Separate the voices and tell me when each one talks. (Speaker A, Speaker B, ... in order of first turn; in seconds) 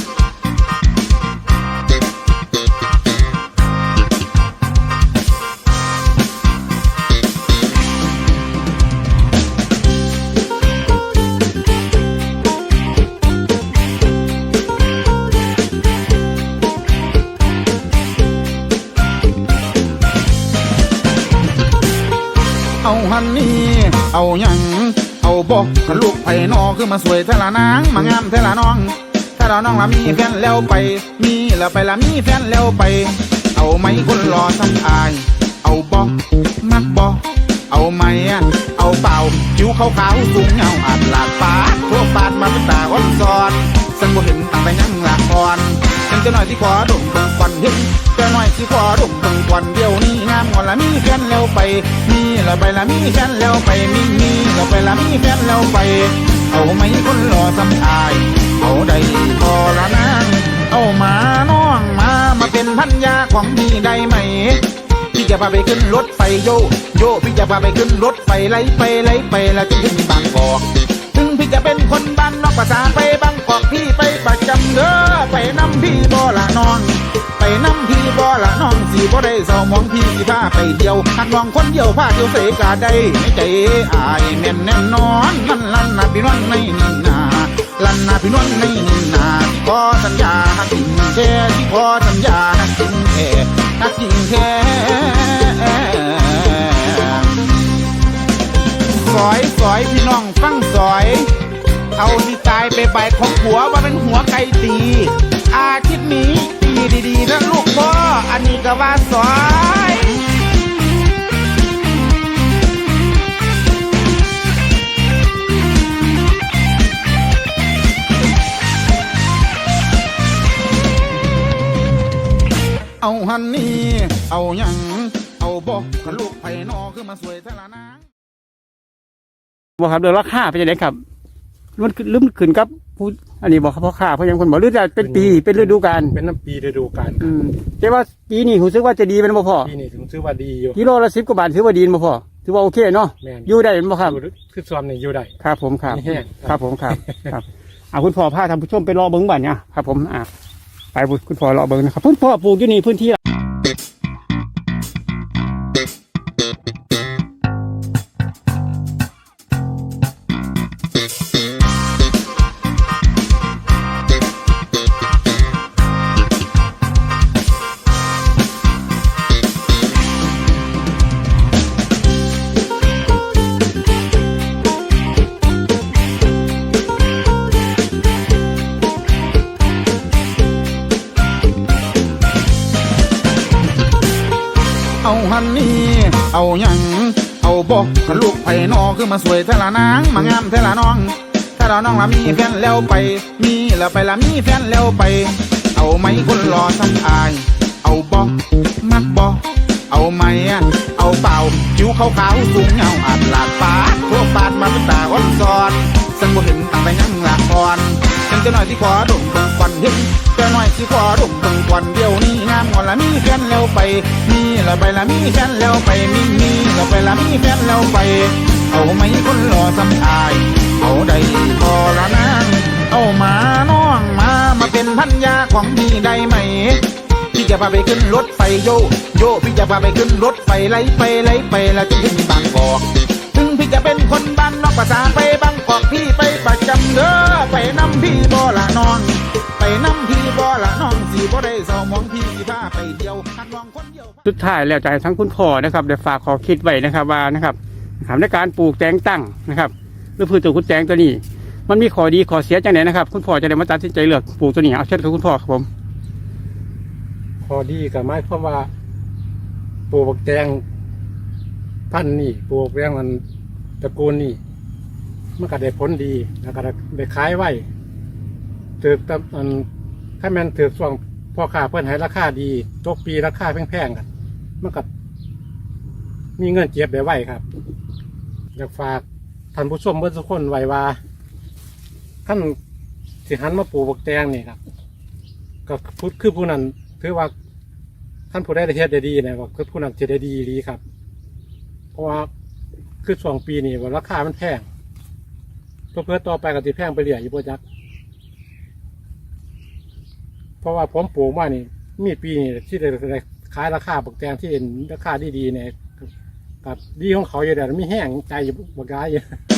Speaker A: 22.8-97.5, 99.0-101.3, 101.9-110.3, 123.0-128.0, 185.0-244.2
Speaker B: 129.8-131.0, 131.8-136.1, 137.2-139.7, 140.7-144.2, 145.4-150.3, 150.9-153.2, 244.2-255.7
Speaker C: 135.0-137.3, 139.6-140.8, 143.2-145.3, 145.9-147.3, 257.4-258.7, 259.9-260.6, 261.9-263.2, 263.8-264.4, 265.4-267.6, 268.8-269.7, 270.2-274.1, 274.6-274.9, 276.4-277.4, 278.6-281.0, 282.2-282.6, 283.2-284.6, 285.6-287.3, 288.3-290.8, 291.9-292.3, 293.0-294.6, 295.9-297.6, 300.6-306.1, 306.6-309.3